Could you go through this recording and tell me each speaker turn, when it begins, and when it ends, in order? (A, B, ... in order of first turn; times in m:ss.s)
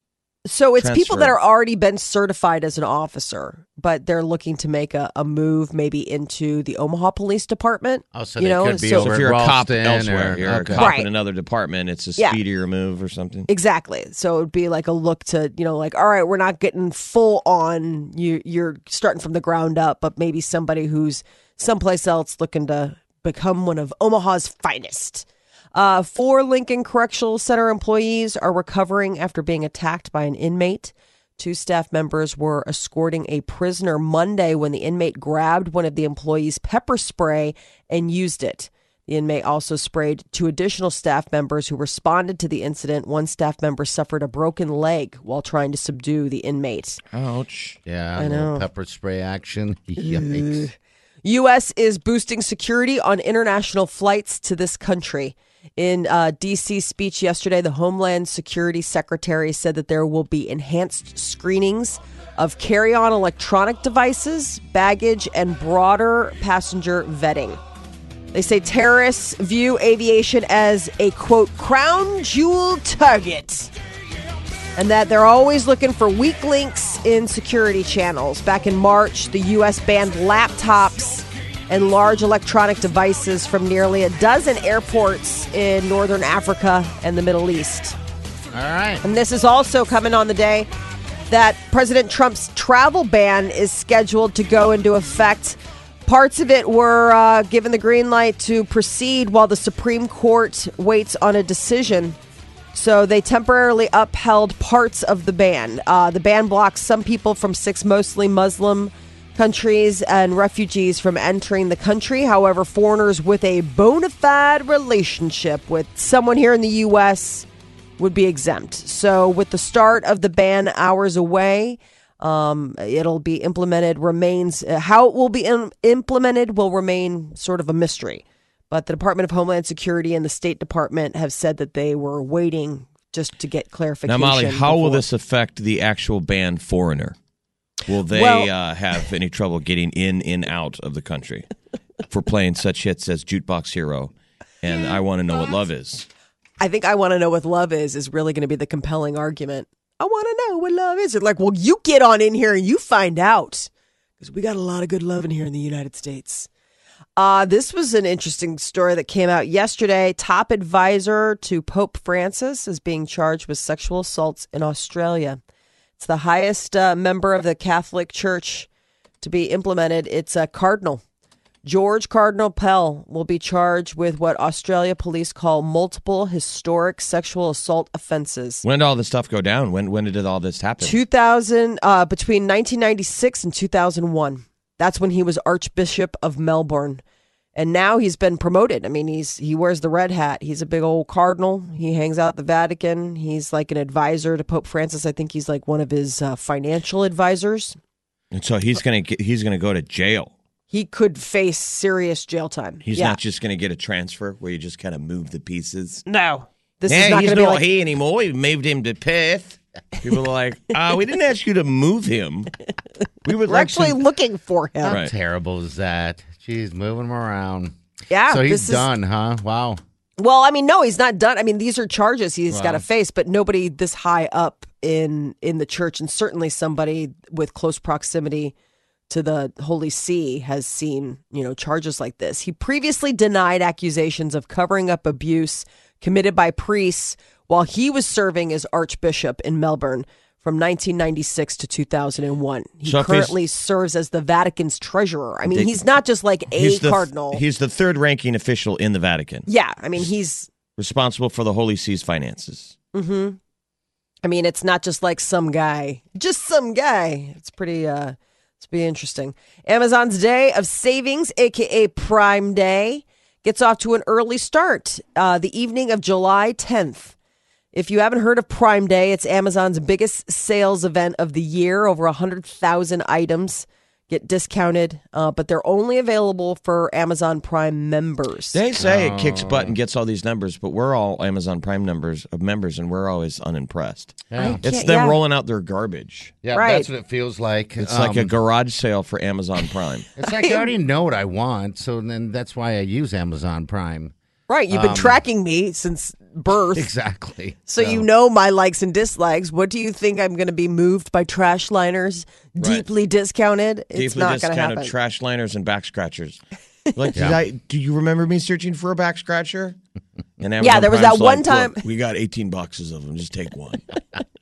0:00.5-0:09.1 A
0:00.8-0:01.3 B
0:08.1-0:10.9 C
0:08.9-0:13.5 B
0:10.8-0:11.1 A
0:13.5-0:47.0 A
0:47.1-0:47.8 B
0:47.9-0:50.7 C
0:48.2-0:48.6 A
0:50.0-1:07.6 A
1:08.3-1:13.7 A
1:14.8-1:28.0 A
1:28.5-1:29.0 C
1:29.0-1:30.7 A
1:31.3-1:42.2 A
1:42.7-1:57.5 A
1:58.0-2:15.0 A
2:14.1-2:17.2 B
2:17.9-2:21.5 B
2:18.1-2:18.5 A
2:22.1-2:26.1 B
2:26.6-2:36.5 A
2:37.2-2:45.4 A
2:46.0-2:48.7 A
2:49.2-2:51.0 A
2:51.6-2:58.6 A
2:58.6-3:01.0 B
3:00.8-3:07.0 A
3:07.6-3:17.8 A
3:18.3-3:20.3 B
3:20.7-3:23.2 A
3:22.8-3:26.0 B
3:26.1-3:27.6 A
3:26.9-3:32.5 B
3:33.2-3:34.0 B
3:33.5-3:35.0 A
3:34.8-3:37.8 C
3:34.9-3:35.1 B
3:38.1-3:38.9 A
3:38.3-3:39.8 C
3:40.2-3:48.5 A
3:42.5-3:42.8 C
3:49.1-4:07.4 A
4:02.9-4:03.4 B
4:05.5-4:05.8 B
4:06.5-4:10.1 B
4:09.5-4:10.5 A
4:10.8-4:12.8 B
4:12.9-4:13.4 A
4:14.2-4:27.1 A
4:27.7-4:38.6 A
4:38.5-4:46.4 B
4:38.8-4:39.8 C
4:44.3-4:44.6 C
4:44.4-4:45.2 A
4:46.4-4:48.3 C
4:46.5-4:46.9 A
4:47.8-4:50.1 B
4:50.2-4:54.1 C
4:50.2-4:50.6 A
4:54.5-4:56.9 A
4:54.7-4:55.2 C
4:56.7-4:58.1 C
4:57.7-5:04.9 A
5:02.6-5:02.8 B
5:04.0-5:06.4 B
5:07.0-5:09.8 B
5:07.2-5:07.4 C
5:10.4-5:13.9 B
5:10.6-5:11.8 A